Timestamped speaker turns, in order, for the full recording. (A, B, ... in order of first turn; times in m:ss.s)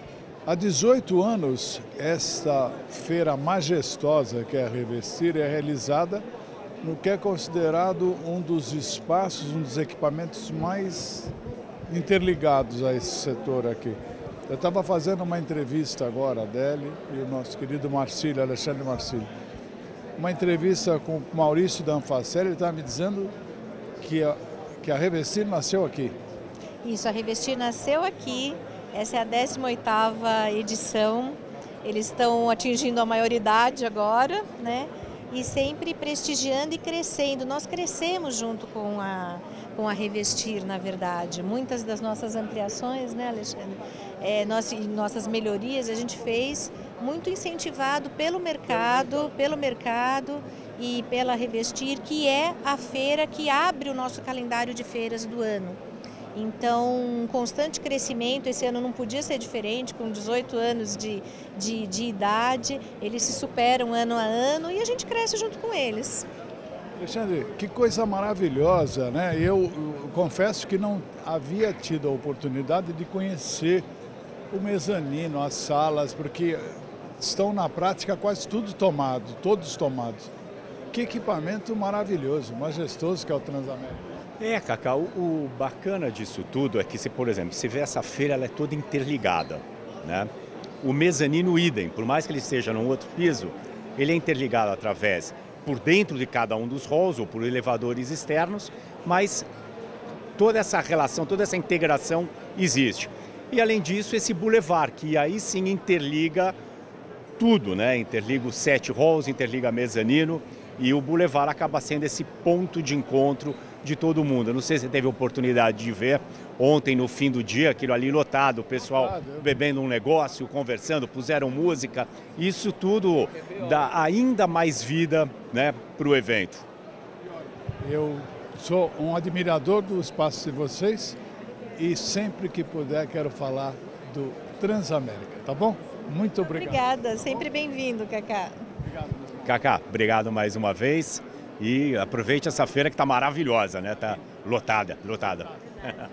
0:00.5-0:06.2 A
0:06.8-0:11.3 A
0:11.9-0:14.0 A
0:14.5-0:19.3 A
0:20.2-0:23.3 A
0:24.0-0:26.1 A
0:26.8-0:55.8 B
0:56.4-1:06.3 B
1:07.0-1:13.8 A
1:14.5-1:20.3 A
1:20.9-1:24.1 A
1:24.4-1:30.3 C
1:30.8-1:39.5 C
1:40.4-1:46.6 C
1:47.4-2:06.6 C
1:58.9-1:59.5 A
2:07.8-2:11.2 A
2:11.8-2:16.8 A
2:16.5-2:18.6 B
2:19.4-2:25.9 C